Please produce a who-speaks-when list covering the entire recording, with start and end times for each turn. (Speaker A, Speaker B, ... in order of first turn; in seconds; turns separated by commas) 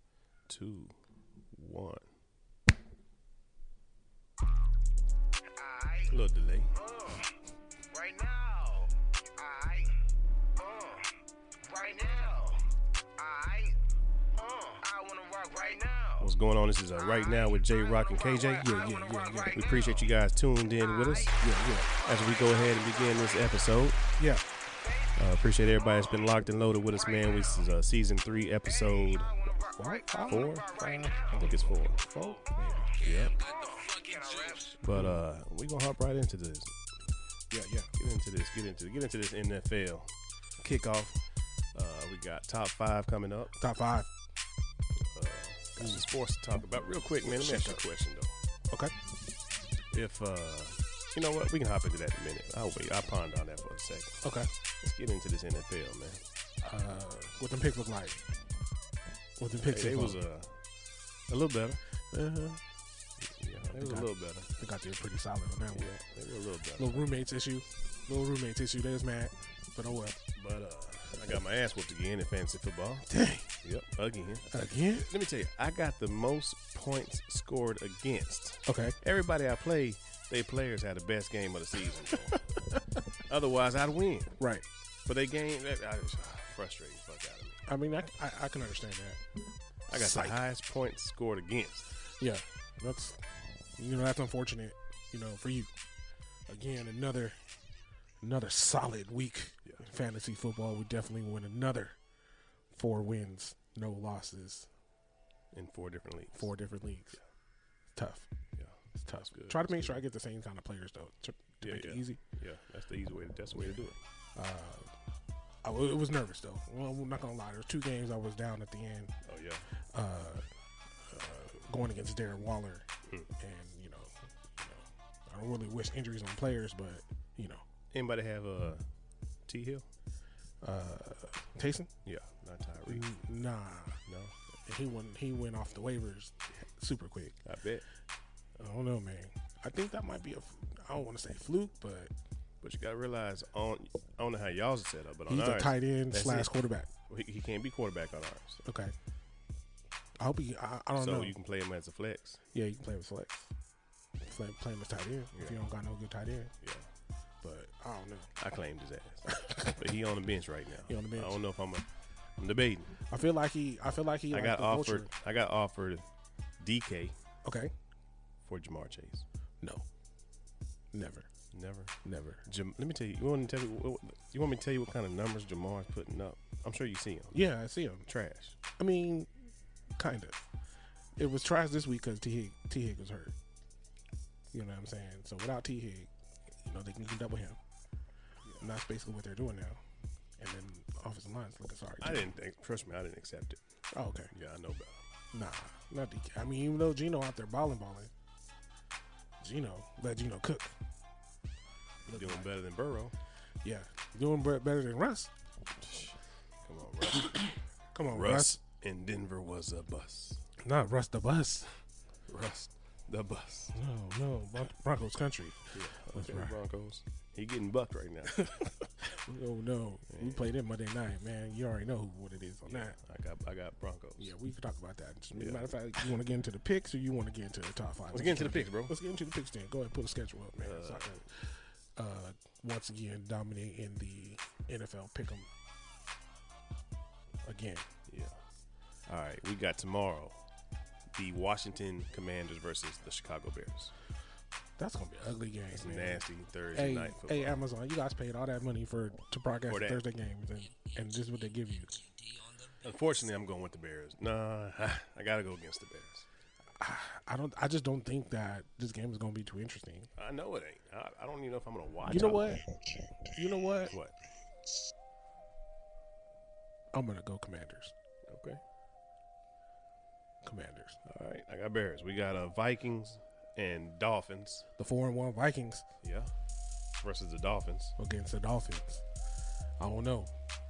Speaker A: 0.5-1.0, Speaker A: 1.5-2.1, Speaker B: 5.5-6.2, Speaker A: 6.1-6.7, Speaker B: 6.7-7.3, Speaker B: 7.9-10.0, Speaker B: 10.6-13.8, Speaker B: 14.3-16.3, Speaker A: 16.2-18.7, Speaker B: 17.0-20.1, Speaker C: 18.5-19.6, Speaker A: 19.5-21.4, Speaker B: 20.8-23.5, Speaker C: 21.4-21.9, Speaker A: 22.0-24.0, Speaker C: 24.2-24.4, Speaker B: 24.8-25.2, Speaker A: 25.1-29.5, Speaker B: 26.9-27.7, Speaker B: 28.6-31.6, Speaker C: 29.8-33.0, Speaker A: 30.3-32.0, Speaker B: 32.1-34.8, Speaker A: 33.0-33.4, Speaker A: 34.8-36.8, Speaker C: 34.9-35.2, Speaker C: 37.5-37.9, Speaker A: 38.0-41.2, Speaker A: 41.7-43.5, Speaker C: 43.6-44.1, Speaker A: 45.0-48.3, Speaker C: 45.8-46.0, Speaker C: 47.2-47.8, Speaker A: 49.9-54.2, Speaker C: 54.2-54.5, Speaker A: 54.8-56.2, Speaker C: 56.6-58.2, Speaker C: 59.4-60.2, Speaker A: 59.6-60.6, Speaker A: 61.3-61.8, Speaker C: 62.1-62.6, Speaker A: 63.2-64.5, Speaker C: 63.6-65.9, Speaker A: 65.7-67.0, Speaker C: 66.8-70.2, Speaker A: 70.4-73.1, Speaker C: 73.1-73.5, Speaker A: 73.6-82.5, Speaker C: 74.5-75.1, Speaker C: 78.7-79.0, Speaker A: 83.3-84.4, Speaker C: 84.4-84.7, Speaker A: 85.1-87.6, Speaker C: 87.7-89.2, Speaker C: 89.9-90.4, Speaker A: 89.9-91.9, Speaker C: 92.2-93.2, Speaker C: 93.8-95.7, Speaker C: 96.5-97.4, Speaker C: 98.2-102.0, Speaker C: 102.7-104.7, Speaker A: 105.5-106.5, Speaker C: 106.3-107.2, Speaker C: 108.0-108.3, Speaker A: 108.6-110.0, Speaker C: 109.0-112.2, Speaker A: 111.6-114.0, Speaker C: 114.3-114.9, Speaker C: 115.6-119.1, Speaker A: 119.2-119.7, Speaker C: 119.9-120.5, Speaker C: 121.0-127.6, Speaker A: 127.9-128.8, Speaker A: 129.5-129.9, Speaker C: 130.6-131.9, Speaker A: 132.1-133.1, Speaker C: 132.9-134.0, Speaker A: 134.1-134.3, Speaker C: 134.7-137.4, Speaker A: 137.4-137.8, Speaker C: 138.6-142.1, Speaker A: 142.6-146.5, Speaker C: 145.3-146.9, Speaker A: 147.1-148.6, Speaker C: 148.7-148.9, Speaker C: 150.2-151.3, Speaker A: 151.0-152.4, Speaker C: 152.5-153.5, Speaker C: 154.2-156.5, Speaker A: 155.3-155.6, Speaker A: 156.6-156.9, Speaker C: 157.4-158.3, Speaker A: 158.4-163.0, Speaker C: 159.3-159.9, Speaker C: 160.9-161.4, Speaker C: 163.1-165.1, Speaker A: 164.3-166.1, Speaker A: 166.6-167.2, Speaker C: 167.4-167.7, Speaker A: 168.4-169.3, Speaker C: 169.6-169.9, Speaker C: 170.9-171.3, Speaker A: 171.5-177.4, Speaker C: 172.0-172.4, Speaker C: 177.3-178.1, Speaker A: 178.1-178.6, Speaker C: 178.8-179.3, Speaker C: 180.0-180.4, Speaker C: 181.2-183.3, Speaker C: 184.5-186.1, Speaker C: 186.6-187.6, Speaker C: 188.6-189.8, Speaker C: 190.4-192.3, Speaker A: 192.0-193.6, Speaker C: 193.9-194.3, Speaker A: 194.3-195.0, Speaker C: 195.3-198.1, Speaker C: 199.4-200.8, Speaker C: 202.1-202.5, Speaker A: 202.1-203.2, Speaker C: 203.6-205.3, Speaker A: 205.8-210.4, Speaker C: 207.9-208.6, Speaker C: 210.6-211.7, Speaker A: 212.3-213.8, Speaker C: 213.7-216.6, Speaker A: 215.7-218.7, Speaker C: 218.4-223.0, Speaker A: 220.1-220.4, Speaker A: 222.7-224.3, Speaker C: 224.2-235.5, Speaker A: 225.4-225.7, Speaker A: 228.1-228.9, Speaker A: 230.6-231.2, Speaker C: 237.4-237.9, Speaker A: 238.1-238.4, Speaker A: 239.1-240.4, Speaker A: 241.1-243.9, Speaker C: 244.8-252.0, Speaker A: 245.8-247.6, Speaker A: 249.7-250.0, Speaker A: 252.8-256.3, Speaker C: 256.8-260.1, Speaker A: 260.2-262.6, Speaker C: 262.1-263.9, Speaker A: 263.9-264.1, Speaker C: 266.9-267.9, Speaker A: 268.3-268.6, Speaker C: 270.4-271.0, Speaker A: 271.1-274.7, Speaker C: 274.8-275.9, Speaker A: 276.0-276.3, Speaker A: 277.0-277.9, Speaker C: 278.0-279.0, Speaker C: 279.8-280.3